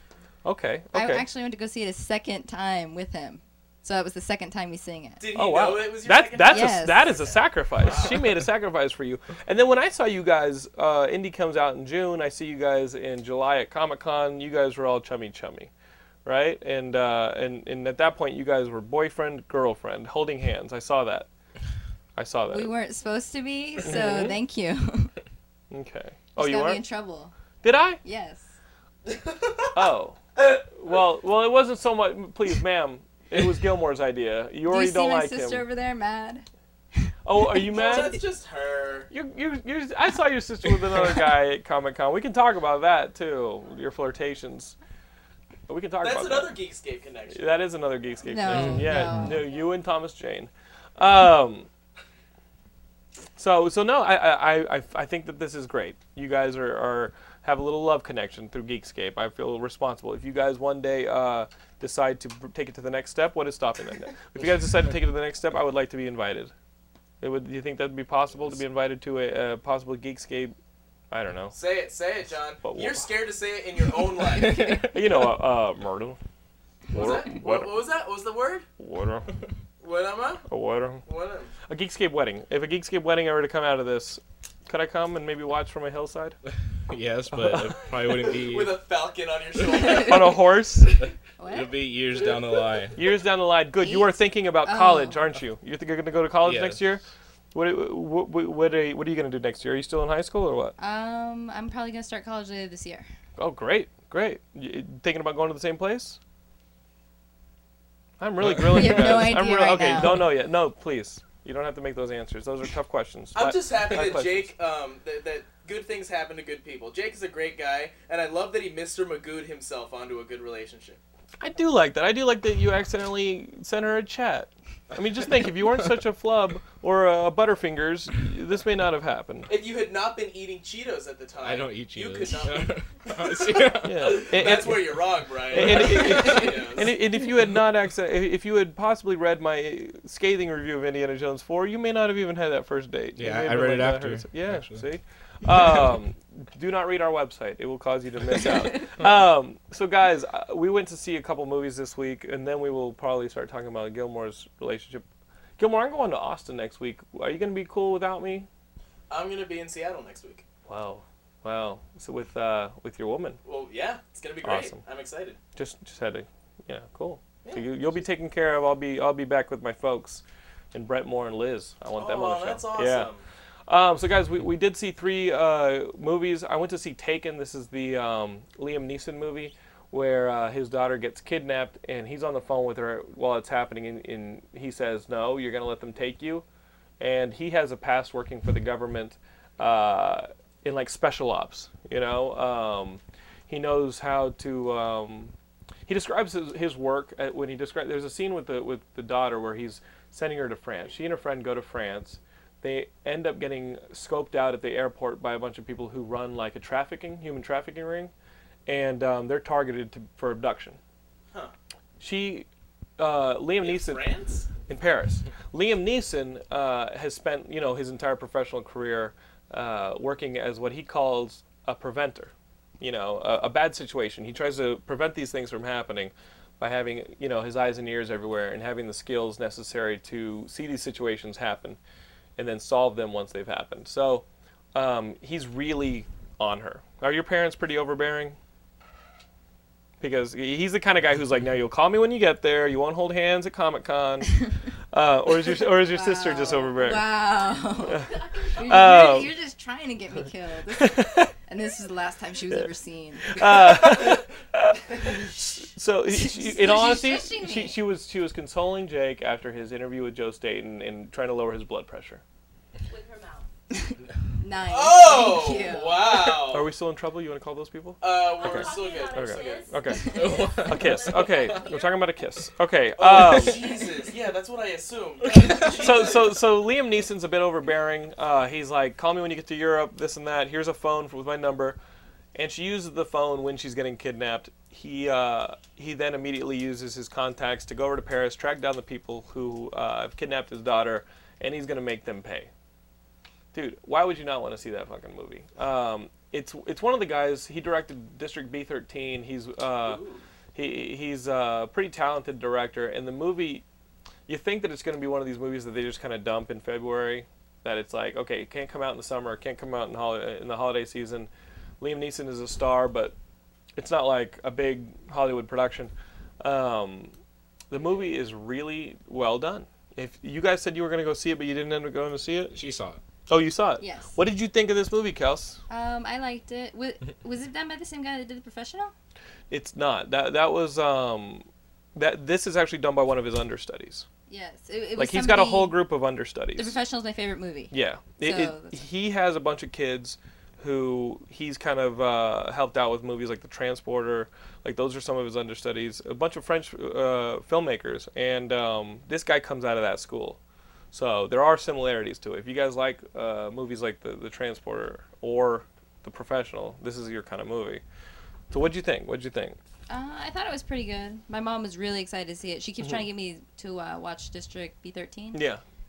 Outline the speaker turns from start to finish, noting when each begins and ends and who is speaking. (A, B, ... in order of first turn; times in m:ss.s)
0:00.4-0:01.2 A
0:00.9-0:05.2 B
0:05.2-0:08.4 C
0:05.4-0:15.7 A
0:06.5-0:07.1 B
0:16.2-0:21.3 A
0:22.2-0:22.7 A
0:22.5-0:25.1 B
0:23.8-0:24.4 A
0:25.7-0:26.8 A
0:26.4-0:27.3 B
0:27.6-0:28.0 A
0:28.0-0:28.5 B
0:29.7-0:30.2 A
0:30.7-0:35.6 A
0:34.7-0:36.5 B
0:37.0-0:38.1 B
0:37.2-0:38.2 A
0:37.6-0:39.1 C
0:39.1-0:44.8 A
0:45.7-0:46.5 A
0:46.0-0:47.4 C
0:47.3-0:51.7 A
0:48.3-0:49.4 B
0:48.5-0:49.4 D
0:53.4-1:06.5 A
1:07.2-1:10.6 A
1:11.1-1:11.6 A
1:11.5-1:14.8 C
1:12.6-1:13.1 A
1:14.4-1:14.9 D
1:14.8-1:16.2 A
1:16.9-1:17.8 A
1:16.9-1:18.6 C
1:18.8-1:19.3 A
1:19.8-1:20.5 C
1:20.5-1:21.0 A
1:21.1-1:21.5 C
1:21.7-1:26.4 A
1:26.9-1:28.7 D
1:27.4-1:27.8 A
1:28.4-1:30.4 C
1:29.8-1:31.0 A
1:31.4-1:31.7 B
1:31.5-1:33.0 D
1:33.0-1:40.8 A
1:33.8-1:35.3 B
1:36.4-1:36.9 D
1:40.8-1:43.1 B
1:43.4-1:46.2 A
1:48.2-1:54.5 A
1:48.5-1:48.8 D
1:48.7-1:50.2 B
1:53.4-2:01.0 C
2:01.4-2:09.5 A
2:09.5-2:17.0 C
2:11.4-2:14.5 D
2:13.8-2:35.0 A
2:15.5-2:16.6 D
2:23.2-2:24.9 D
2:35.6-2:38.5 A
2:39.1-2:40.4 C
2:40.7-2:43.4 A
2:43.4-2:45.4 C
2:44.4-2:44.8 A
2:45.6-2:53.1 A
2:47.4-2:48.0 C
2:52.0-2:53.2 C
2:53.7-3:06.4 A
3:07.0-3:15.3 A
3:15.9-3:28.1 A
3:28.7-3:30.8 A
3:32.0-3:32.5 A
3:33.0-3:34.0 A
3:33.6-3:34.5 C
3:34.7-3:51.8 A
3:52.4-3:58.4 A
4:00.0-4:07.1 A
4:05.9-4:08.1 B
4:07.9-4:09.2 E
4:08.6-4:13.4 B
4:08.6-4:09.3 A
4:10.8-4:11.3 A
4:13.3-4:22.2 A
4:16.1-4:17.8 B
4:22.9-4:23.5 E
4:23.9-4:26.1 B
4:24.7-4:26.7 C
4:26.4-4:33.7 A
4:28.0-4:29.7 C
4:28.3-4:32.2 E
4:30.1-4:31.6 D
4:33.0-4:36.4 C
4:35.3-4:35.7 D
4:35.7-4:41.8 A
4:42.4-4:52.5 A
4:53.5-5:00.0 A
4:59.8-5:00.2 C
5:00.5-5:03.6 A
5:04.3-5:11.3 A
5:11.8-5:13.2 A
5:13.8-5:17.1 A
5:17.7-5:22.6 A
5:22.5-5:23.0 D
5:23.3-5:25.6 A
5:23.8-5:24.2 B
5:25.7-5:28.9 B
5:29.5-5:34.1 A
5:34.3-5:35.8 B
5:35.0-5:36.8 A
5:36.6-5:38.8 B
5:37.7-5:50.4 A
5:50.9-5:57.8 A
5:58.5-5:59.6 A
5:59.9-6:05.4 B
6:05.3-6:05.6 A